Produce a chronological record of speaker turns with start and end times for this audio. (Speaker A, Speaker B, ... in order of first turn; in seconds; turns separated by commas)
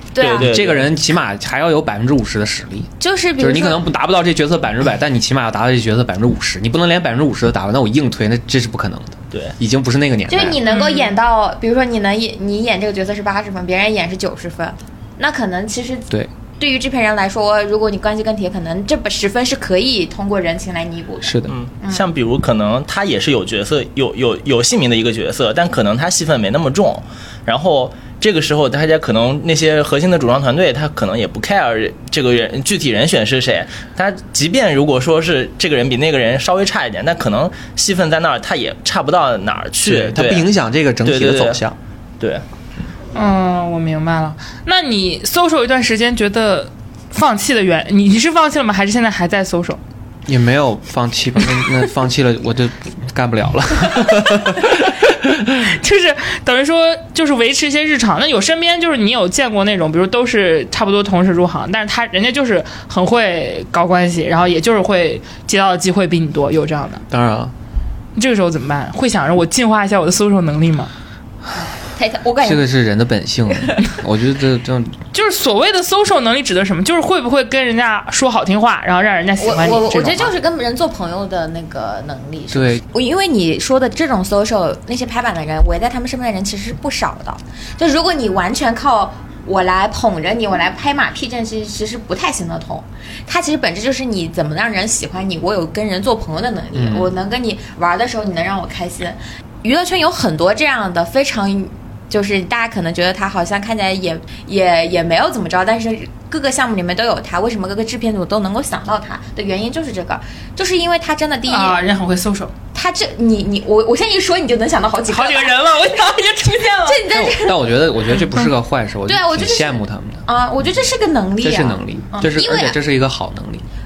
Speaker A: 0.1-0.5, Speaker B: 0.2-0.9, Speaker C: 0.4-10.6, Speaker A: 3.0-3.8, Speaker A: 10.3-22.1, Speaker D: 10.6-11.1, Speaker C: 21.2-21.5, Speaker B: 21.5-40.5, Speaker C: 39.8-41.8, Speaker B: 41.0-41.6, Speaker D: 43.1-49.8, Speaker C: 50.2-55.4, Speaker D: 55.5-67.0, Speaker C: 67.1-67.5, Speaker D: 68.2-70.9, Speaker A: 71.9-72.6, Speaker C: 72.4-75.0, Speaker D: 75.1-80.3, Speaker A: 79.4-111.8, Speaker C: 82.5-82.8, Speaker C: 96.7-97.1, Speaker D: 111.5-112.5, Speaker A: 112.7-118.5, Speaker D: 115.1-117.0, Speaker C: 117.0-120.2, Speaker A: 119.0-122.8, Speaker C: 121.4-123.7